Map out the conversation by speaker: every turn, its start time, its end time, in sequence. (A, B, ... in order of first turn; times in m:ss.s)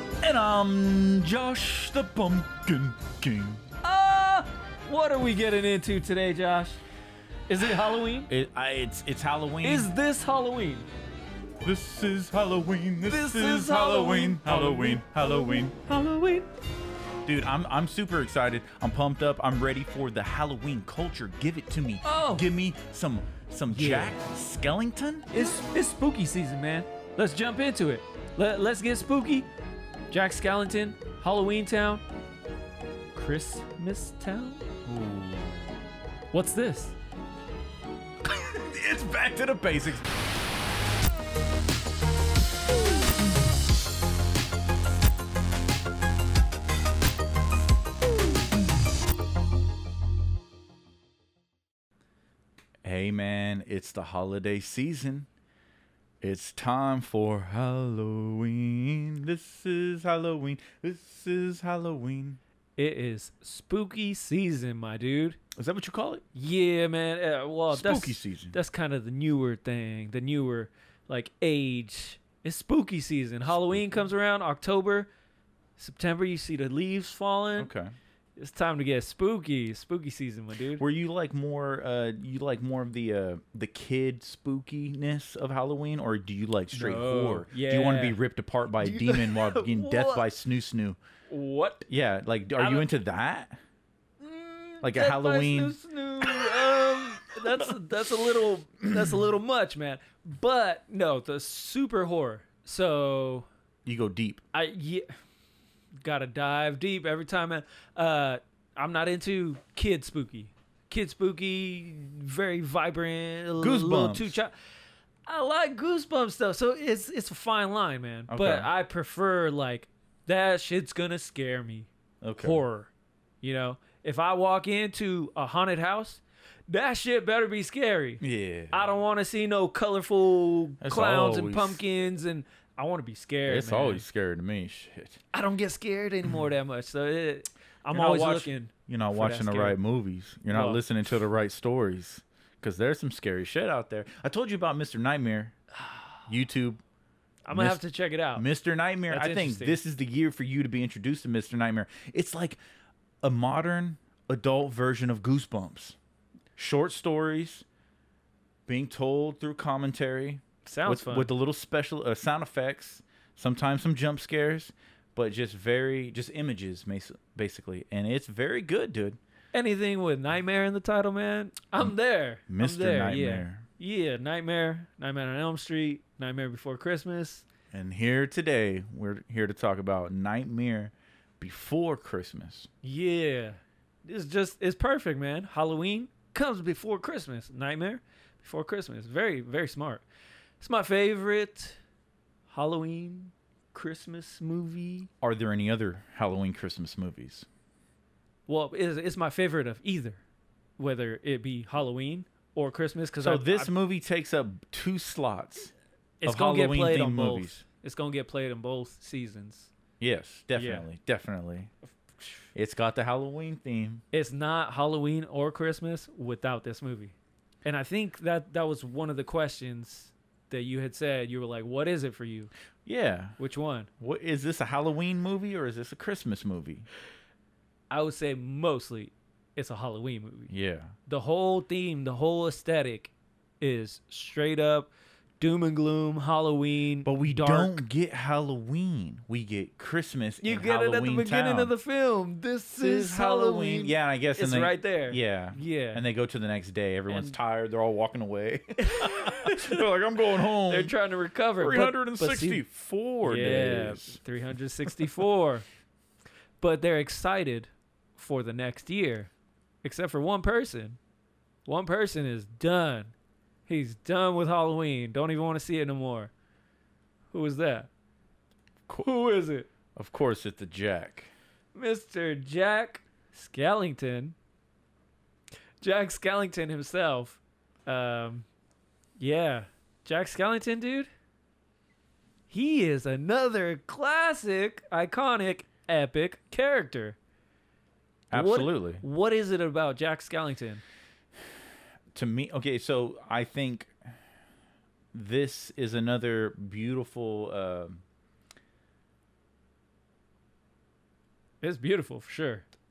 0:00.2-0:03.6 A
0:03.8-0:06.8 B
0:07.5-0:08.3 B
0:08.3-0:09.9 A
0:09.6-0:10.9 B
0:11.6-0:16.4 A
0:13.0-0:15.8 B
0:17.2-0:25.5 A
0:22.0-0:22.5 B
0:23.7-0:24.2 B
0:25.3-0:29.5 B
0:30.1-0:32.0 B
0:33.2-0:34.6 B
0:34.8-0:35.6 A
0:36.3-0:37.0 B
0:38.3-0:40.1 A
0:52.8-0:55.3 A
0:56.2-1:02.4 A
1:02.8-1:05.4 B
1:05.6-1:06.2 A
1:06.3-1:15.1 B
1:07.7-1:08.6 A
1:13.5-1:14.1 A
1:15.8-1:17.7 B
1:17.6-1:17.9 A
1:18.4-1:20.8 B
1:20.8-1:31.0 A
1:26.7-1:28.2 B
1:28.7-1:30.3 B
1:31.3-1:31.8 B
1:31.9-1:33.6 A
1:32.6-1:32.9 B
1:34.2-1:43.5 B
1:34.8-1:38.1 A
1:38.9-1:39.2 A
1:43.8-1:44.4 A
1:44.5-1:45.1 B
1:46.0-1:54.5 B
1:53.6-1:54.4 A
1:55.3-2:14.0 B
1:58.3-1:58.7 A
2:02.2-2:02.6 A
2:08.2-2:08.9 A
2:10.8-2:11.8 A
2:13.4-2:15.2 A
2:15.3-2:19.8 B
2:17.9-2:25.6 A
2:20.5-2:20.8 B
2:25.8-2:26.2 B
2:26.3-2:26.8 A
2:27.4-2:28.4 B
2:27.5-2:27.8 A
2:28.3-2:32.6 A
2:29.1-2:29.8 B
2:33.2-2:36.0 A
2:36.6-2:37.6 A
2:38.7-2:49.2 A
2:40.6-2:41.3 B
2:49.5-2:57.4 B
2:52.5-2:53.6 A
2:57.7-3:02.7 A
3:02.8-3:10.0 B
3:10.6-3:11.8 B
3:12.5-3:15.1 B
3:15.2-3:17.5 A
3:18.5-3:20.2 B
3:20.8-3:23.7 B
3:23.2-3:25.7 A
3:26.2-3:29.7 B
3:26.2-3:27.6 A
3:30.0-3:31.7 A
3:30.6-3:30.8 B
3:32.5-3:34.0 A
3:34.1-3:42.5 B
3:42.8-3:43.4 A
3:43.4-3:43.9 B
3:44.0-3:46.9 A
3:47.9-3:50.5 B
3:50.5-3:50.9 A
3:51.1-3:57.8 B
3:57.0-4:01.7 A
4:00.4-4:06.0 B
4:02.8-4:10.9 A
4:07.1-4:07.3 B
4:08.8-4:09.8 B
4:10.6-4:12.6 B
4:11.6-4:14.2 A
4:13.2-4:15.6 B
4:16.6-4:19.3 B
4:19.8-4:21.0 B
4:21.6-4:23.1 B
4:23.7-4:26.3 B
4:27.3-4:27.9 B
4:29.0-4:29.7 B
4:30.0-4:31.3 A
4:31.8-4:34.3 B
4:35.8-4:38.4 B
4:39.2-4:41.1 B
4:42.5-4:47.2 B
4:48.3-4:49.0 A
4:48.3-4:50.8 B
4:52.1-4:53.9 A
4:55.1-4:58.0 A
5:01.6-5:02.6 B